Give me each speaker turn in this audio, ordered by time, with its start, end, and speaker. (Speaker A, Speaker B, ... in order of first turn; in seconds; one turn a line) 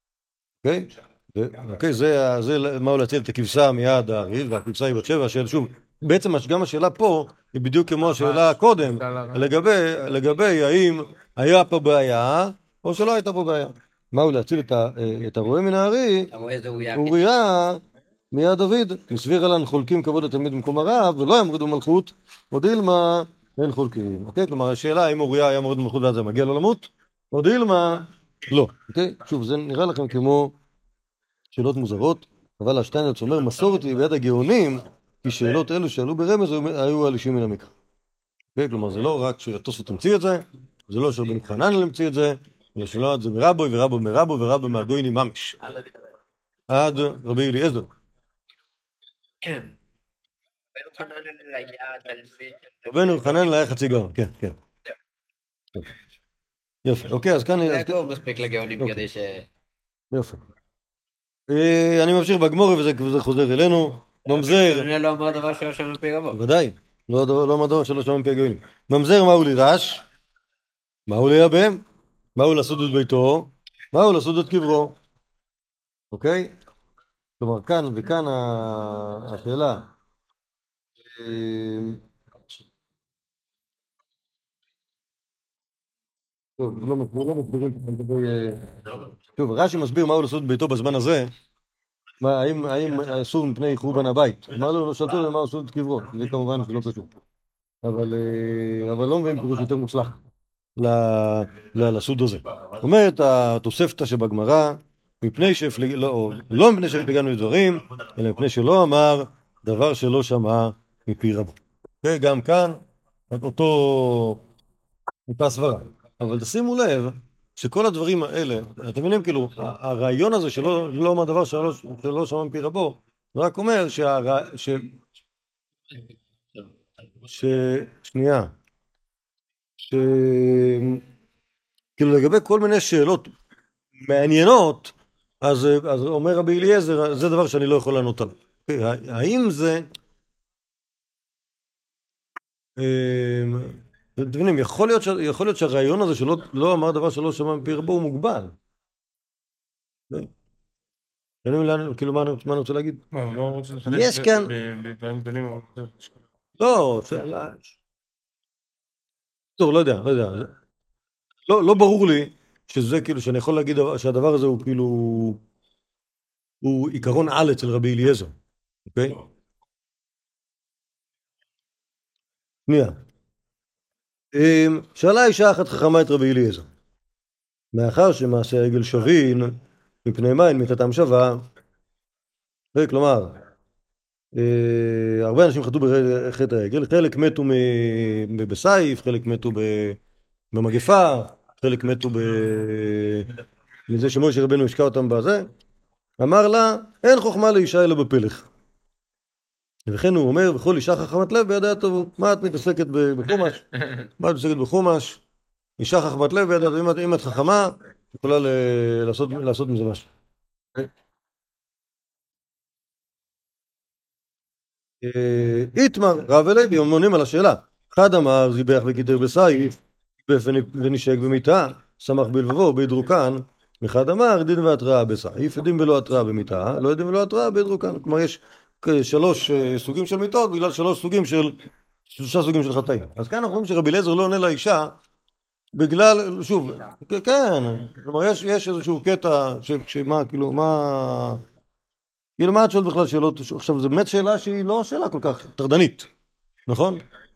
Speaker A: 0.6-16.3
Speaker B: 16.3-17.2
Speaker A: 16.9-30.5
Speaker A: 31.5-37.7
Speaker A: 38.5-45.6
Speaker A: 46.7-47.9
Speaker B: 49.4-49.7
Speaker B: 50.8-53.4
Speaker A: 52.9-54.5
Speaker A: 56.8-58.0
Speaker B: 57.6-59.5
Speaker A: 60.1-60.4
Speaker A: 61.5-64.9
Speaker B: 64.3-66.4
Speaker A: 66.3-70.0
Speaker A: 71.1-71.8
Speaker A: 72.3-74.9
Speaker A: 76.1-76.5
Speaker A: 77.4-79.9
Speaker A: 81.1-82.0
Speaker A: 86.6-91.3
Speaker A: 92.2-97.1
Speaker A: 97.8-100.2
Speaker A: 100.8-114.4
Speaker A: 115.3-124.9
Speaker A: 127.2-128.5
Speaker A: 129.8-131.0
Speaker A: 132.0-133.3
Speaker A: 134.0-139.9
Speaker A: 142.8-148.5
Speaker A: 151.4-153.0
Speaker C: 153.3-155.9
Speaker A: 153.9-154.5
Speaker A: 156.6-157.6
Speaker A: 159.6-160.5
Speaker A: 161.5-165.4
Speaker A: 166.6-168.3
Speaker A: 168.9-169.2
Speaker A: 172.7-173.0
Speaker A: 174.3-176.7
Speaker A: 177.7-181.4
Speaker A: 182.7-183.3
Speaker A: 184.3-190.0
Speaker A: 190.5-193.3
Speaker A: 193.9-195.5
Speaker A: 196.2-198.5
Speaker A: 199.9-203.7
Speaker A: 204.2-205.2
Speaker A: 205.8-210.1
Speaker A: 215.0-231.6
Speaker A: 232.1-234.9
Speaker A: 235.7-241.4
Speaker A: 242.4-246.1
Speaker A: 246.7-247.0